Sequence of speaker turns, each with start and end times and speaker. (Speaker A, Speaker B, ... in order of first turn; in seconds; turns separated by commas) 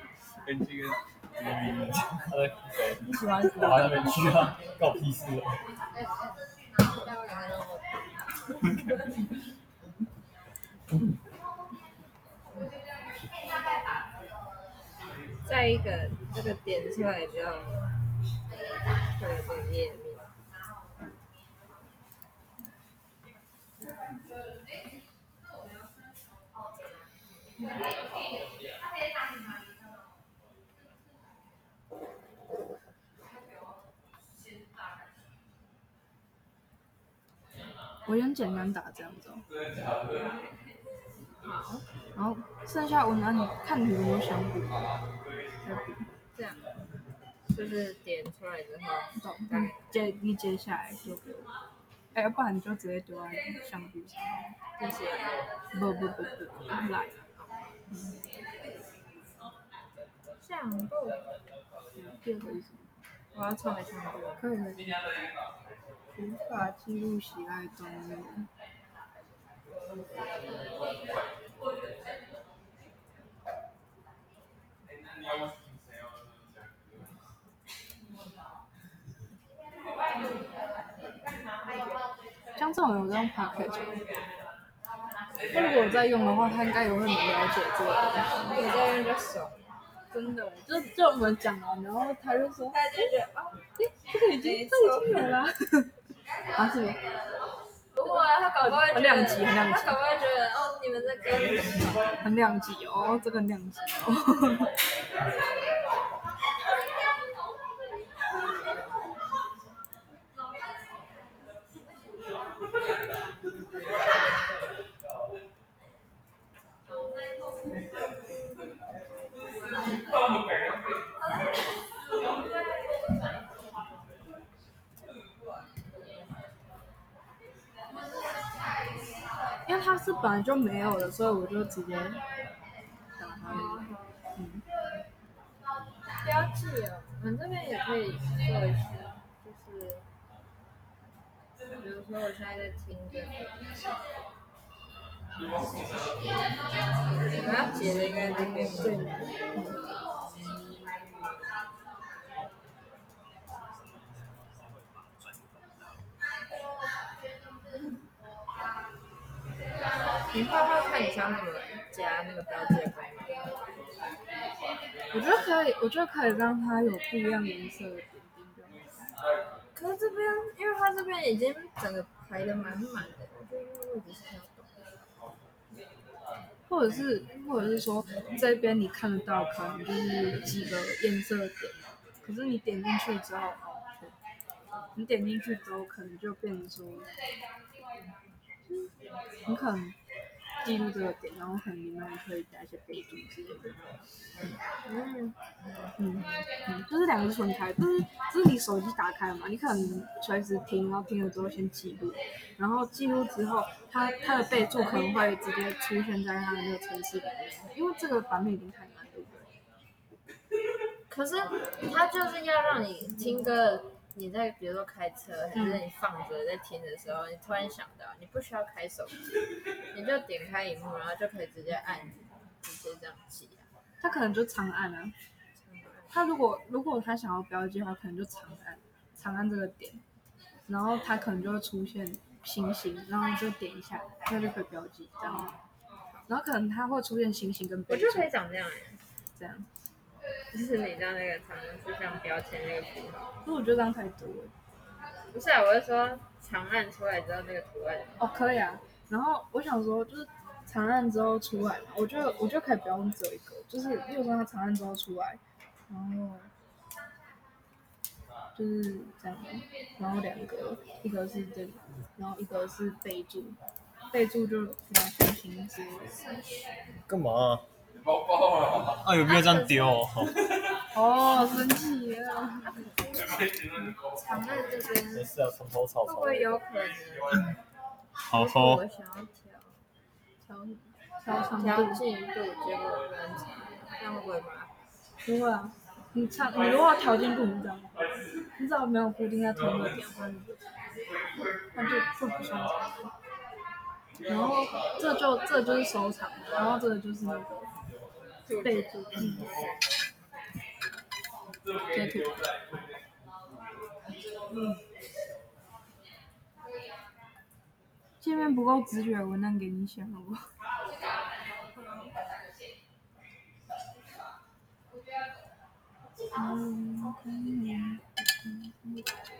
Speaker A: 0.4-1.0, Speaker B: 1.4-5.6, Speaker C: 3.1-4.3, Speaker D: 6.8-8.0, Speaker D: 15.5-17.9, Speaker D: 19.1-20.3, Speaker C: 38.1-39.5, Speaker D: 41.4-41.9, Speaker C: 42.1-44.9, Speaker C: 45.6-46.1, Speaker D: 46.4-46.6, Speaker D: 47.5-50.0, Speaker C: 49.1-51.5, Speaker C: 52.1-54.5, Speaker D: 54.8-55.3, Speaker C: 55.7-57.1, Speaker C: 57.9-58.1, Speaker D: 60.4-61.3, Speaker C: 62.0-62.9, Speaker D: 63.3-64.4, Speaker C: 64.4-64.9, Speaker C: 66.1-68.5, Speaker C: 82.6-84.0, Speaker C: 85.5-88.6, Speaker D: 88.4-89.7, Speaker C: 90.1-92.8, Speaker D: 92.7-93.6, Speaker C: 93.8-95.9, Speaker D: 94.2-95.3, Speaker C: 96.6-97.0, Speaker D: 98.0-102.1, Speaker C: 98.6-100.0, Speaker C: 102.2-104.7, Speaker C: 129.7-132.2, Speaker C: 133.2-134.6, Speaker D: 133.4-134.1, Speaker D: 136.2-140.1, Speaker D: 141.8-143.5, Speaker D: 147.1-149.3, Speaker C: 147.9-149.8, Speaker A: 153.5-156.1, Speaker D: 160.3-163.5, Speaker C: 165.1-169.0, Speaker D: 169.8-174.7, Speaker C: 176.7-184.1, Speaker C: 185.0-187.1, Speaker C: 188.7-188.9, Speaker C: 189.5-190.0, Speaker C: 190.6-193.8, Speaker D: 194.8-195.4, Speaker C: 196.0-209.5, Speaker D: 211.1-223.7, Speaker C: 215.6-215.8, Speaker C: 224.0-225.1, Speaker D: 225.6-226.2, Speaker C: 226.1-230.0, Speaker C: 230.7-235.6, Speaker D: 235.2-235.6, Speaker C: 236.3-238.3, Speaker D: 237.9-239.0, Speaker C: 239.4-239.7, Speaker D: 240.5-243.3, Speaker C: 243.4-244.5, Speaker D: 245.3-248.2, Speaker C: 248.2-256.5, Speaker C: 258.6-263.6, Speaker C: 264.1-266.4, Speaker B: 267.1-267.6, Speaker B: 269.0-270.3, Speaker D: 269.3-270.1, Speaker C: 270.9-272.9, Speaker D: 272.8-273.4, Speaker D: 274.1-275.3, Speaker B: 275.1-276.6, Speaker D: 276.1-277.5, Speaker B: 278.2-278.8, Speaker D: 278.3-279.8, Speaker C: 281.2-282.0, Speaker D: 281.6-284.7, Speaker C: 285.2-288.1, Speaker C: 288.6-290.3, Speaker D: 290.2-290.5, Speaker C: 291.7-293.1, Speaker C: 294.3-297.6, Speaker D: 298.5-299.8, Speaker C: 298.6-299.5, Speaker C: 301.9-302.5, Speaker C: 308.2-310.5, Speaker D: 316.4-317.2, Speaker C: 317.0-319.1